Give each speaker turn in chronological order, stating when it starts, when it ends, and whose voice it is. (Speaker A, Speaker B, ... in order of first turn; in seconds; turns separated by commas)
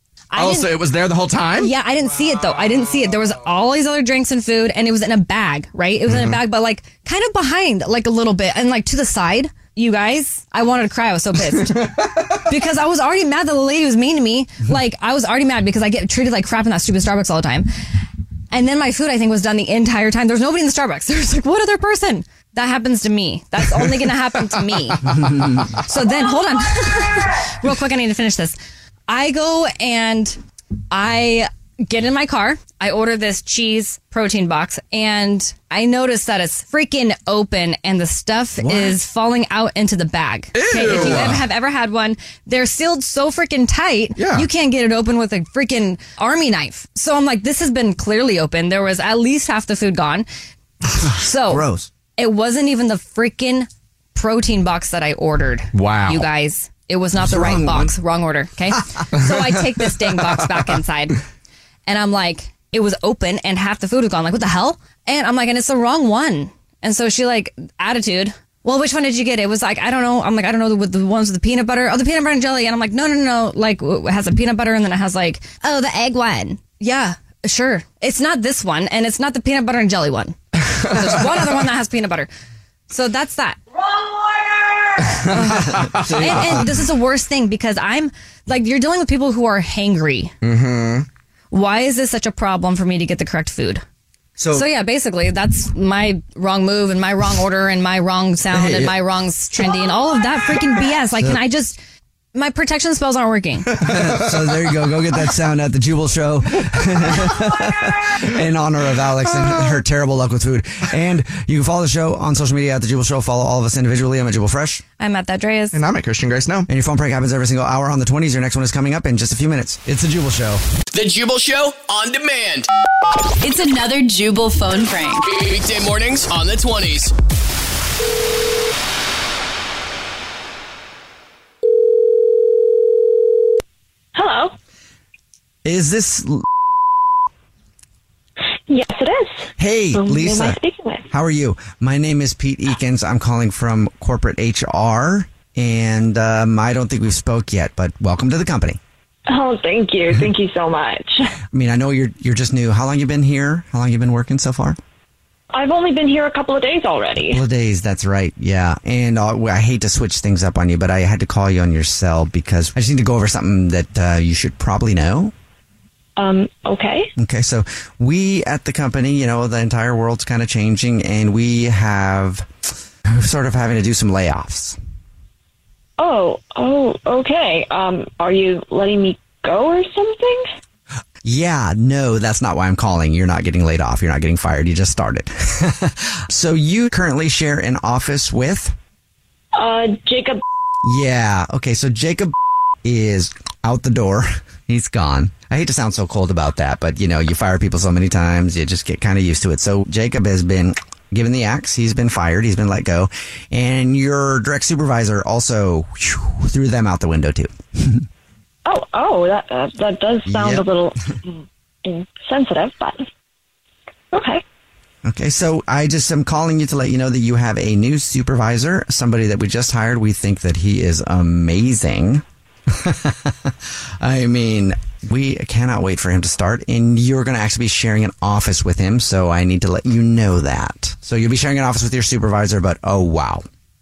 Speaker A: 0.3-0.8, Speaker B: 0.3-1.7, Speaker A: 1.6-17.7, Speaker B: 6.1-6.4, Speaker A: 18.5-25.1, Speaker C: 25.3-25.6, Speaker A: 25.9-28.6, Speaker A: 29.1-30.4, Speaker A: 30.9-50.3, Speaker C: 38.7-38.9, Speaker B: 40.5-41.4, Speaker B: 44.2-44.5, Speaker A: 51.1-51.6, Speaker C: 51.5-51.9, Speaker A: 52.2-61.2, Speaker B: 55.7-56.3, Speaker C: 57.2-57.9, Speaker A: 61.9-80.4, Speaker A: 80.9-82.3, Speaker A: 82.9-83.6, Speaker B: 85.3-86.4, Speaker A: 85.4-90.3, Speaker C: 86.0-86.7, Speaker B: 90.4-91.1, Speaker A: 91.5-93.8, Speaker C: 94.4-94.7, Speaker A: 94.5-101.8, Speaker C: 98.5-99.0, Speaker A: 102.3-103.8, Speaker C: 103.8-114.8, Speaker A: 115.0-115.8, Speaker B: 115.7-116.7, Speaker C: 116.7-120.6, Speaker D: 120.9-122.7, Speaker E: 123.4-125.4, Speaker D: 125.4-127.1, Speaker F: 134.2-134.5, Speaker C: 135.7-136.5, Speaker F: 138.7-141.1, Speaker C: 139.6-140.6, Speaker C: 141.1-148.8, Speaker F: 149.3-151.3, Speaker C: 151.5-154.8, Speaker F: 155.5-157.4, Speaker C: 157.3-165.3, Speaker F: 166.2-167.1, Speaker C: 167.2-172.5, Speaker C: 173.1-174.8, Speaker F: 176.0-180.5, Speaker C: 181.2-188.8, Speaker F: 189.6-190.4, Speaker C: 190.8-208.1, Speaker F: 208.7-213.1, Speaker C: 210.3-210.6, Speaker F: 214.1-214.4, Speaker C: 215.0-233.4